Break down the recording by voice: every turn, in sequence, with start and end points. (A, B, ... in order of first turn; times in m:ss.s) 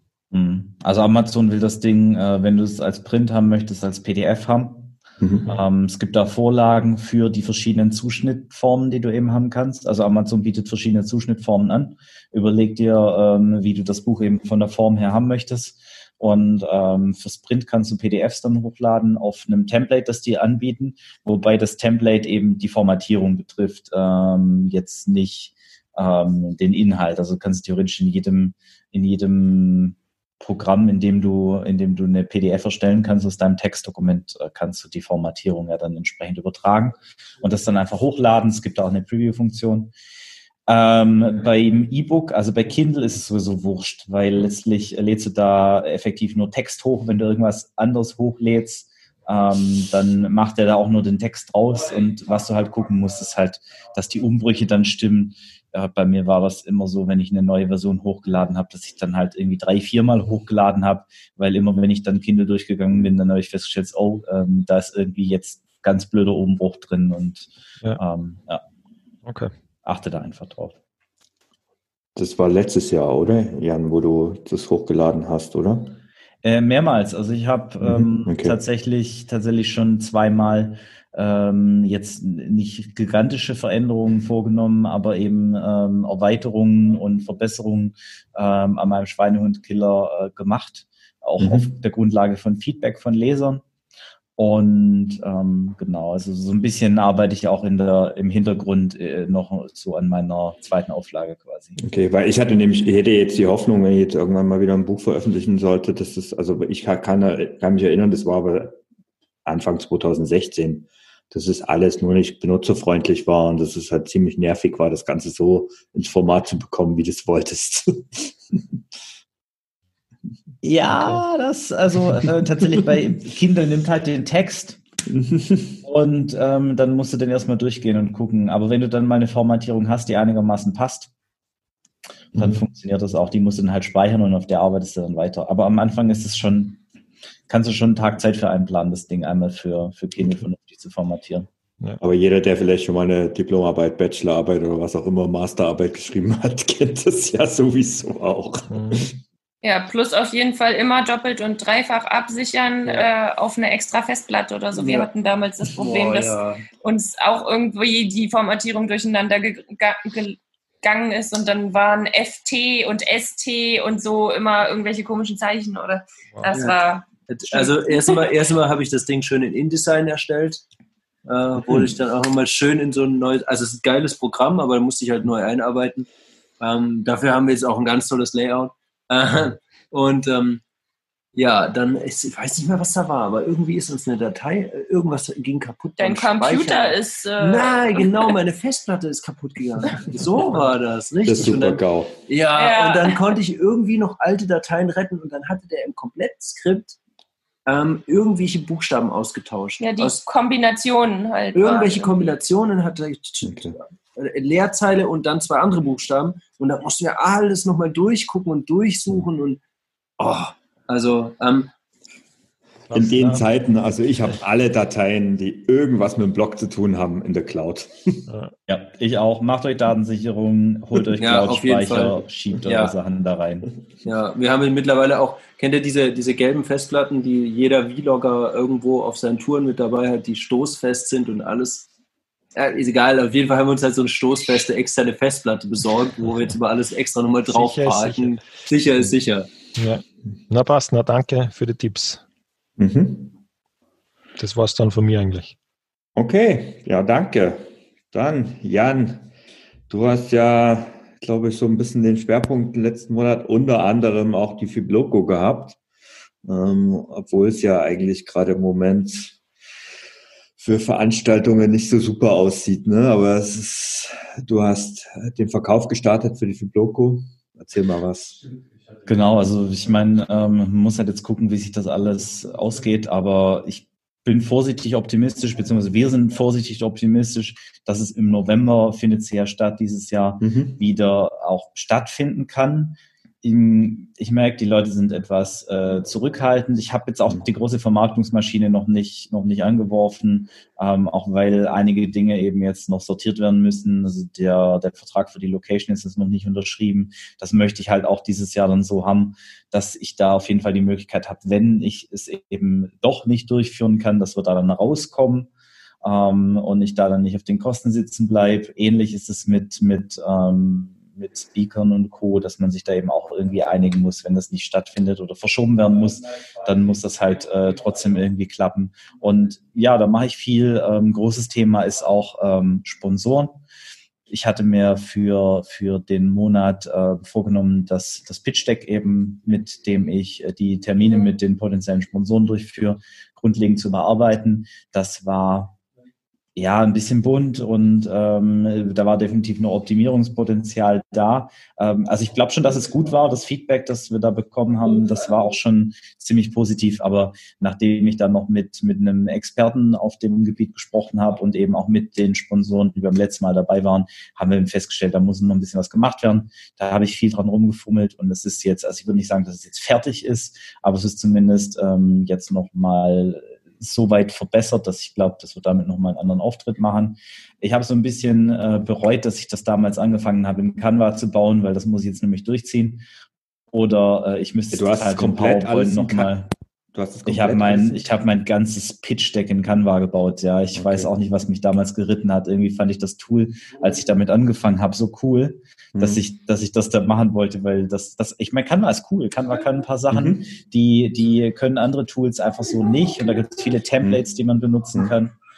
0:00.3-0:05.0 A
0:05.2-0:05.5 B
0:05.5-0:39.9 A
0:40.7-1:08.6 A
1:09.3-1:09.5 C
1:09.8-1:10.8 A
1:12.2-1:16.0 B
1:16.4-1:33.6 A
1:17.8-1:18.6 B
1:31.4-1:31.7 B
1:34.4-1:41.8 A
1:41.8-1:48.8 B
1:49.5-1:58.6 B
2:00.6-2:04.8 A
2:05.1-2:05.8 B
2:05.8-2:11.1 A
2:12.4-2:16.8 A
2:12.4-2:12.6 B
2:17.5-2:21.5 A
2:22.0-2:29.2 B
2:28.7-2:29.1 C
2:29.6-2:48.3 D
2:34.8-2:35.1 E
2:35.8-2:36.6 E
2:47.3-2:50.6 E
2:51.3-2:56.1 E
2:56.6-3:00.6 E
3:01.4-3:17.0 E
3:06.0-3:08.3 D
3:11.2-3:12.2 B
3:12.6-3:13.2 D
3:17.7-3:20.2 E
3:19.8-3:22.3 D
3:21.6-3:29.6 E
3:23.4-3:23.8 B
3:30.2-3:31.7 E
3:32.9-3:33.4 C
3:32.9-3:38.3 B
3:38.7-3:43.7 A
3:41.2-3:43.0 E
3:44.0-3:51.9 E
3:52.6-3:59.5 E
3:57.5-3:58.4 C
3:59.8-4:02.2 C
4:02.8-4:03.4 B
4:04.4-4:05.6 C
4:06.2-4:09.3 B
4:09.9-4:15.8 B
4:16.4-4:19.4 B
4:20.6-4:28.4 B
4:29.1-5:05.5 A
4:40.4-4:40.8 B
5:06.0-5:23.6 A
5:24.3-5:35.8 A
5:36.6-6:13.0 A
6:13.7-6:16.5 A
6:14.7-6:16.3 B
6:17.0-6:18.0 B
6:17.3-6:35.4 A
6:20.8-6:21.1 B
6:26.0-6:26.2 B
6:30.1-6:30.5 B